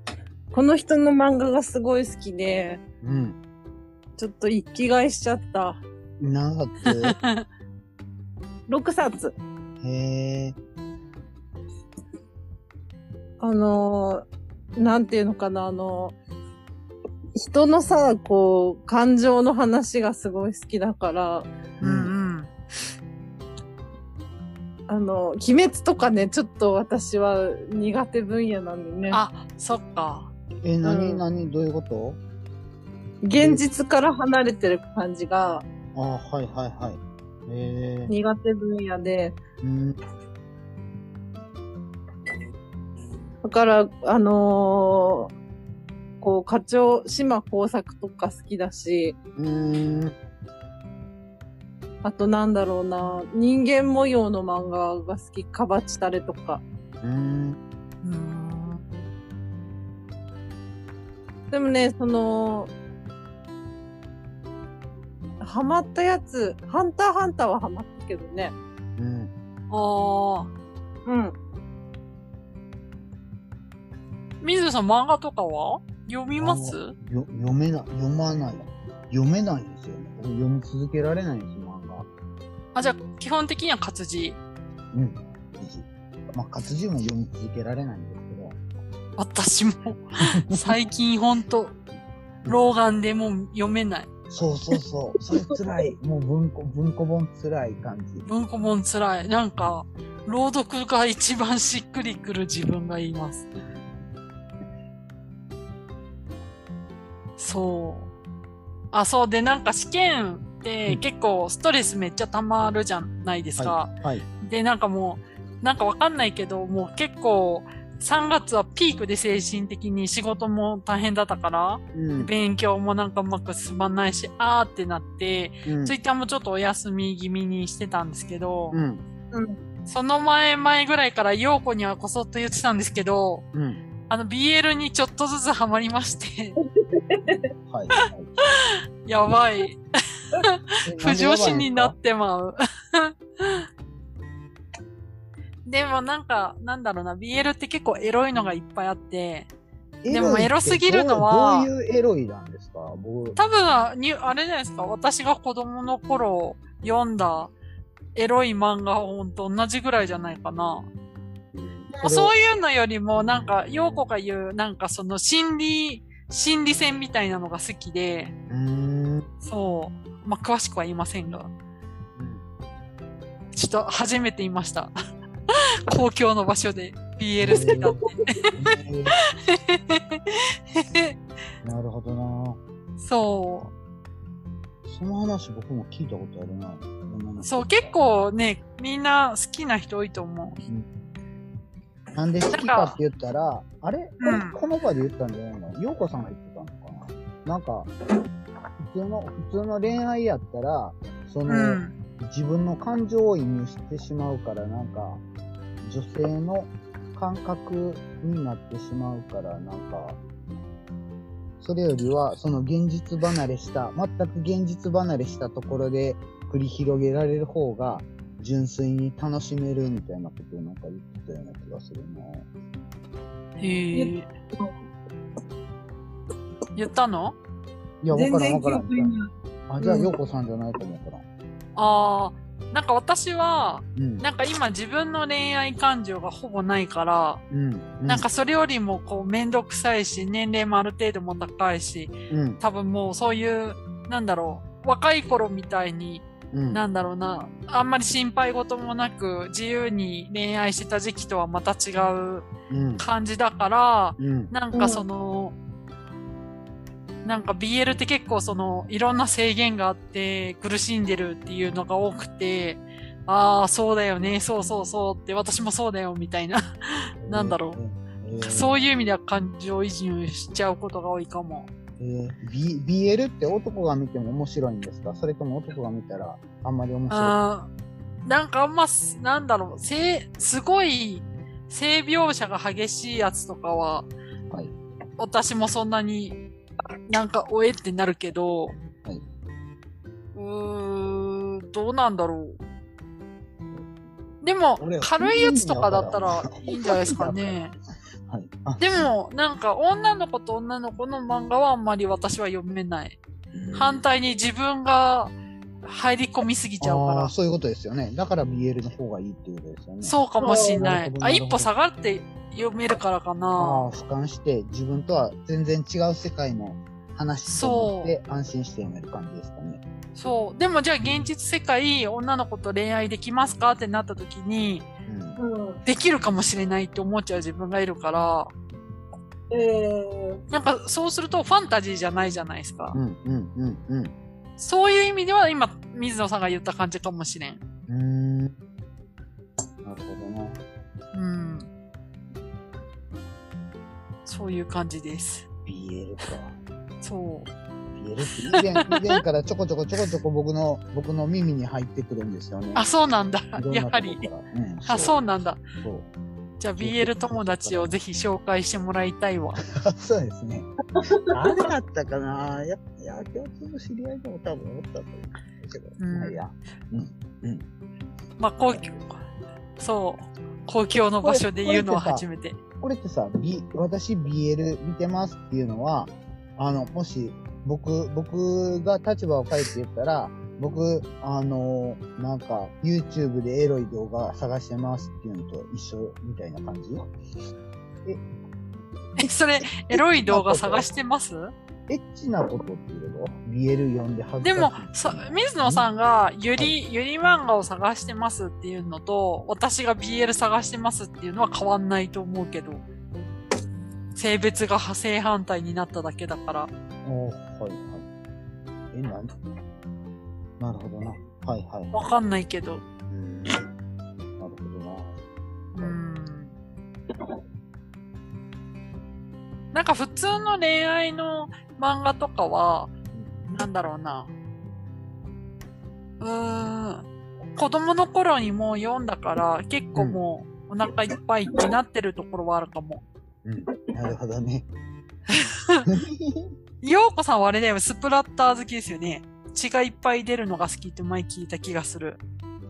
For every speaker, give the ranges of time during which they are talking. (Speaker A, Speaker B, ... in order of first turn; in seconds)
Speaker A: 0.5-2.8, 4.2-5.8, 8.7-9.3, 13.4-14.2, 14.8-16.1, 17.4-21.5, 24.9-29.2, 30.8-31.2, 33.2-35.6, 38.1-39.4, 43.4-45.3, 46.2-49.2, 52.0-56.6, 61.5-62.7, 65.4-68.5, 71.1-71.3, 129.3-129.6, 136.8-137.5, 223.9-224.7, 228.1-229.2, 229.8-230.1, 254.7-255.0, 310.4-310.8, 325.4-325.8, 329.5-330.4, 361.0-361.6
Speaker B: 3.0-3.4, 6.2-7.2, 9.8-10.6, 21.8-22.1, 30.6-32.2, 33.3-33.6, 36.0-38.1, 39.6-40.0, 49.4-50.2, 57.0-57.6, 69.0-69.3, 76.3-82.1, 84.9-88.6, 90.5-90.8, 94.3-98.3, 113.6-114.3, 121.9-122.3, 125.7-126.0, 128.7-129.0, 133.5-133.8, 137.7-138.3, 140.9-141.9, 150.0-153.4, 161.5-162.3, 163.3-164.1, 168.5-169.3, 172.2-172.4, 177.4-178.0, 178.5-179.2, 181.6-182.6, 184.9-187.9, 192.1-197.9, 198.8-205.2, 205.8-210.2, 211.6-222.5, 228.0-229.1, 229.7-231.2, 234.0-234.2, 237.5-238.3, 242.3-242.6, 246.5-246.8, 252.7-253.1, 254.2-254.5, 267.2-268.8, 272.0-277.4, 294.8-297.6, 298.3-299.1, 303.5-304.0, 306.8-311.7, 313.6-319.8, 321.0-321.3, 325.1-325.4, 332.9-334.1, 337.9-338.6, 339.8-340.6, 345.7-346.6, 348.0-352.9, 353.6-355.2, 355.8-356.1, 356.8-357.9, 359.7-360.7, 361.3-367.7, 371.2-372.3, 372.8-387.0, 389.2-390.9, 391.9-395.9, 407.1-408.1, 408.9-409.3, 410.6-412.1, 413.1-413.6, 414.4-415.2, 433.4-434.7, 435.9-436.5
Speaker C: 6.9-7.5, 21.8-22.5, 29.1-30.3, 58.0-58.8, 69.7-70.5, 74.4-77.0, 82.8-84.4, 89.2-91.8, 92.5-94.1, 98.3-103.5, 107.4-108.1, 108.9-128.8, 129.9-133.4, 134.1-136.6, 138.0-139.8, 140.3-143.7, 145.7-149.5, 150.1-151.7, 153.4-157.5, 158.2-160.9, 162.0-168.3, 169.4-171.5, 173.5-174.9, 175.9-178.5, 179.3-181.2, 183.0-183.7, 187.4-190.6, 192.5-193.0, 194.2-194.6, 201.5-201.9, 223.6-224.3, 226.8-227.4, 231.8-237.4, 238.1-255.6, 257.2-267.8, 268.4-271.7, 277.1-277.7, 278.2-284.1, 285.2-286.4, 287.1-288.8, 290.4-292.6, 294.4-297.7, 298.8-303.2, 303.7-307.3, 310.0-313.9, 317.5-318.1, 320.1-324.9, 325.9-328.5, 330.5-333.0, 334.6-337.6, 341.1-341.7, 344.2-345.5, 347.0-347.5, 348.5-349.2, 352.8-354.3, 354.9-355.6, 356.6-359.6, 366.0-366.4, 368.4-369.2, 369.8-372.6, 389.2-391.5, 394.4-402.8, 404.1-406.7, 411.9-412.8, 415.7-416.5, 419.7-422.9, 423.5-424.3, 426.2-433.0, 435.3-435.9, 436.8-442.2